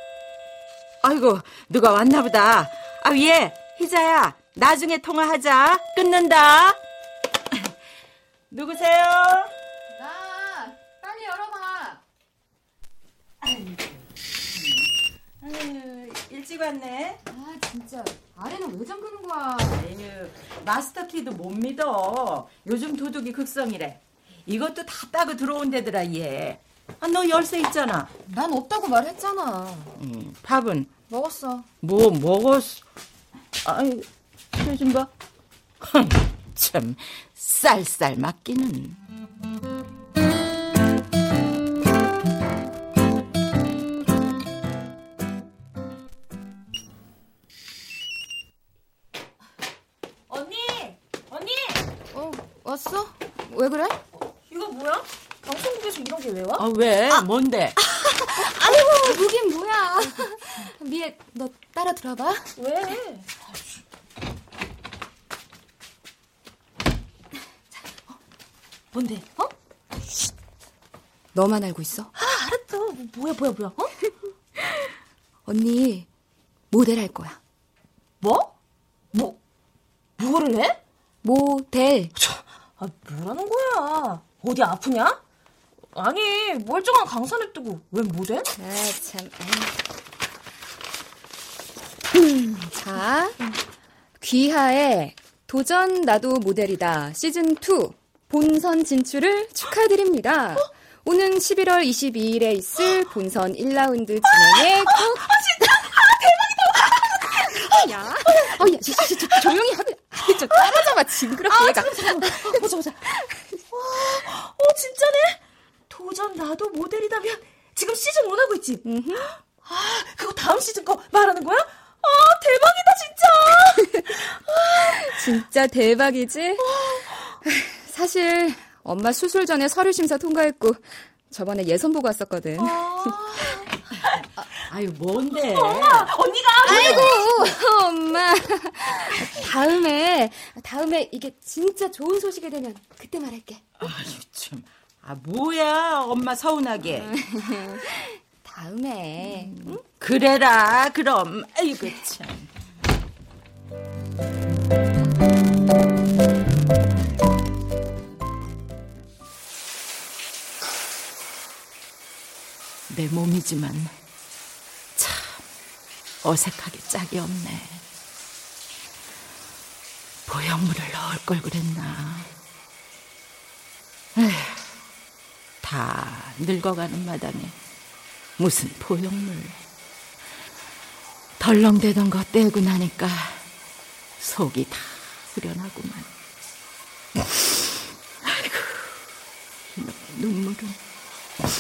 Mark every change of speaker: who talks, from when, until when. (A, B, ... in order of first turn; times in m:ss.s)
0:01.0-0:06.8 A
0:08.5-0:09.5 A
0:09.9-0:12.0 B
0:13.4-0:13.7 A
0:15.4-0:17.2 A
0:17.3-0:19.8 B
0:19.7-0:28.1 A
0:28.3-0:29.9 B
0:30.0-0:30.9 A
0:31.1-0:31.7 B
0:31.8-0:32.8 A
0:33.6-0:35.1 A
0:35.8-0:39.0 A
0:50.3-0:51.8 C
0:52.1-0:54.0 B
0:54.5-0:56.7 C
0:56.6-0:57.8 A
0:57.8-1:02.5 B
1:02.6-1:03.3 C
1:08.9-1:09.5 C
1:11.3-1:12.1 B
1:12.2-1:13.9 C
1:15.5-1:16.1 B
1:16.7-1:17.4 B
1:18.2-1:18.5 C
1:19.1-1:19.4 C
1:20.2-1:20.8 C
1:21.2-1:22.1 B
1:22.8-1:25.2 C
1:25.9-1:28.5 C
1:28.6-1:29.8 B
1:32.2-1:33.4 B
1:34.2-1:45.3 B
1:44.3-1:49.6 C
1:47.7-1:52.6 B
1:50.2-1:53.0 C
1:53.7-1:58.8 C
1:58.8-1:59.3 B
1:59.6-2:04.0 C
2:04.7-2:05.4 C
2:04.8-2:06.8 B
2:06.6-2:07.3 C
2:07.4-2:13.2 B
2:12.6-2:13.6 C
2:14.7-2:16.1 A
2:15.5-2:17.3 C
2:16.6-2:23.6 B
2:16.7-2:17.1 A
2:23.8-2:27.2 A
2:27.1-2:29.8 B
2:29.2-2:32.5 A
2:42.9-2:43.9 A
2:45.0-2:45.4 A
2:46.2-2:47.8 A
2:50.3-2:52.3 A
2:54.2-2:54.6 A
2:55.6-2:57.6 A
2:58.4-2:59.6 A
3:01.4-3:03.4 A
3:04.2-3:06.1 A
3:07.2-3:09.0 A
3:09.8-3:10.8 A